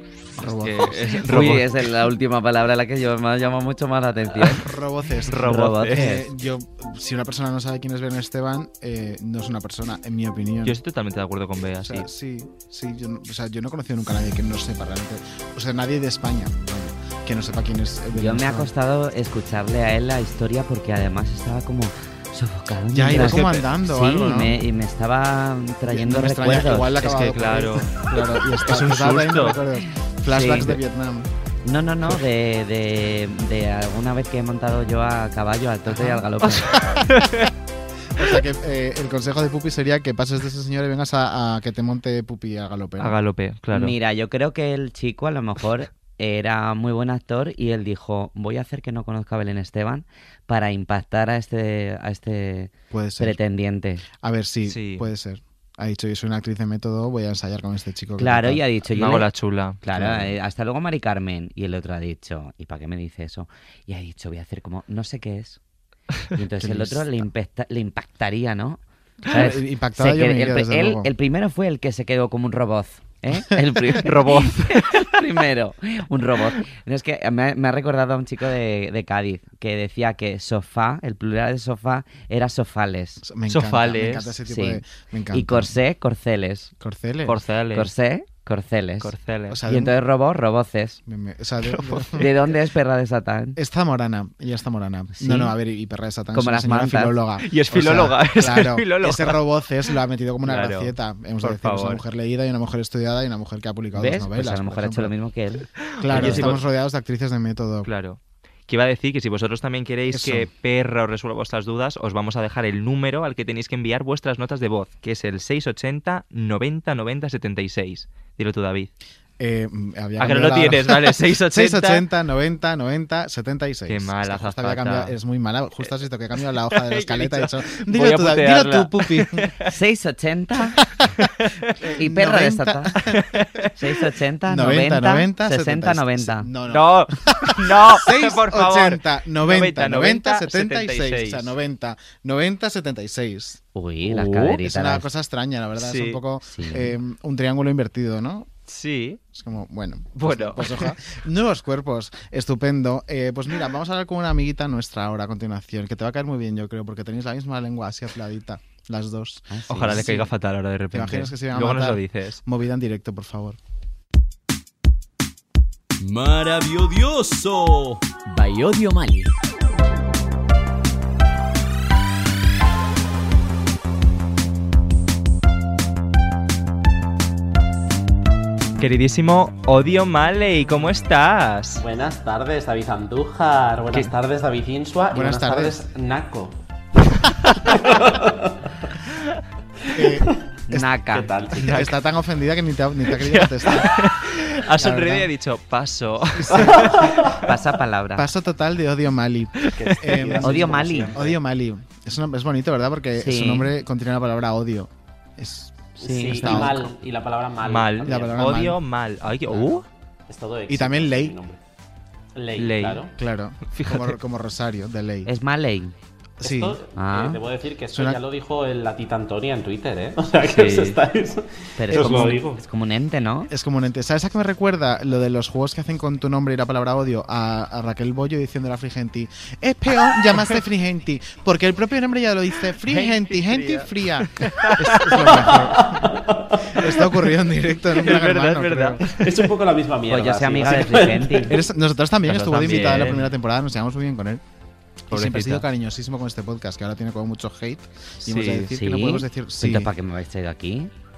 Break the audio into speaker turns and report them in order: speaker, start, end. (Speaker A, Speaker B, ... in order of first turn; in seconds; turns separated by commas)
Speaker A: 0.4-1.3, Speaker B: 0.4-1.7, Speaker C: 1.2-4.7, Speaker A: 4.4-10.8, Speaker B: 5.3-6.0, Speaker C: 5.4-6.2, Speaker B: 10.6-12.1, Speaker A: 11.8-18.7, Speaker C: 18.1-27.0, Speaker A: 22.9-24.6, Speaker B: 23.2-23.6, Speaker A: 25.9-31.3, Speaker B: 27.0-29.6, Speaker C: 30.3-30.8, Speaker C: 31.6-36.8, Speaker A: 35.9-37.3, Speaker B: 37.1-37.5, Speaker A: 38.1-43.2, Speaker B: 43.0-44.0, Speaker C: 43.7-54.0, Speaker A: 52.9-53.4, Speaker A: 54.2-58.6, Speaker B: 54.7-55.0, Speaker C: 58.2-59.3, Speaker B: 58.9-59.8, Speaker C: 59.8-65.6, Speaker A: 59.9-60.3, Speaker C: 66.3-83.2, Speaker A: 66.6-67.3, Speaker A: 69.3-71.1, Speaker B: 74.0-75.0, Speaker A: 83.2-85.8, Speaker B: 83.5-84.3, Speaker C: 84.5-86.7, Speaker A: 86.8-87.4, Speaker B: 87.3-87.9, Speaker C: 87.7-89.1, Speaker B: 89.0-89.6, Speaker A: 89.5-90.0, Speaker C: 89.7-91.0, Speaker A: 91.0-92.3, Speaker B: 91.6-92.3, Speaker C: 92.2-93.6, Speaker A: 93.5-105.1, Speaker C: 95.2-95.5, Speaker C: 96.3-97.2, Speaker B: 97.4-99.4, Speaker B: 100.4-102.0, Speaker C: 104.0-106.5, Speaker B: 105.9-106.6, Speaker A: 106.0-107.9, Speaker B: 107.8-118.9, Speaker A: 110.1-110.5, Speaker A: 119.4-129.5, Speaker B: 120.2-122.0, Speaker B: 123.9-125.1, Speaker B: 126.7-129.7, Speaker C: 129.7-130.8, Speaker A: 130.9-133.4, Speaker B: 131.4-131.7, Speaker C: 132.0-133.0, Speaker B: 133.1-133.7, Speaker C: 133.7-136.5, Speaker A: 134.4-143.6, Speaker B: 136.7-141.5, Speaker C: 143.7-145.1, Speaker B: 144.1-144.6, Speaker A: 144.6-148.5, Speaker B: 145.8-146.2, Speaker C: 146.5-146.9, Speaker B: 148.7-149.2, Speaker A: 149.3-160.1, Speaker B: 150.2-150.9, Speaker C: 159.5-160.2, Speaker B: 159.7-162.4, Speaker A: 160.9-163.6, Speaker D: 166.0-169.3, Speaker B: 178.8-181.8, Speaker E: 181.8-186.6, Speaker A: 185.1-185.8, Speaker E: 187.6-188.5, Speaker E: 189.9-190.4, Speaker A: 189.9-190.9, Speaker C: 190.7-191.3, Speaker E: 191.1-191.8, Speaker B: 191.6-192.0, Speaker A: 191.6-194.0, Speaker B: 193.1-197.4, Speaker A: 194.7-195.3, Speaker A: 196.4-197.2, Speaker E: 196.9-197.3, Speaker C: 197.3-198.3, Speaker A: 198.2-206.9, Speaker B: 199.6-200.2, Speaker E: 199.8-201.4, Speaker C: 200.4-201.2, Speaker C: 203.2-203.7, Speaker E: 206.0-208.4, Speaker C: 206.0-206.9, Speaker B: 207.6-209.8, Speaker A: 208.0-208.8, Speaker A: 209.4-209.8, Speaker E: 210.3-211.6, Speaker A: 210.7-211.3, Speaker E: 212.3-213.1, Speaker B: 212.6-213.1, Speaker A: 213.2-215.3, Speaker B: 213.7-214.2, Speaker C: 215.3-215.9, Speaker A: 216.4-216.8, Speaker E: 216.4-222.7, Speaker C: 216.9-217.4, Speaker A: 217.9-218.2, Speaker B: 220.4-221.0, Speaker C: 221.8-223.5, Speaker A: 221.9-222.3, Speaker A: 223.5-239.1, Speaker B: 232.9-235.7, Speaker E: 235.4-236.7, Speaker B: 236.8-237.1, Speaker B: 237.9-239.5, Speaker E: 239.1-241.6, Speaker C: 240.1-241.6, Speaker A: 241.5-244.4, Speaker C: 242.3-242.9, Speaker B: 242.3-243.3, Speaker A: 245.1-249.9, Speaker B: 245.1-245.6, Speaker B: 248.2-248.7, Speaker C: 248.7-250.9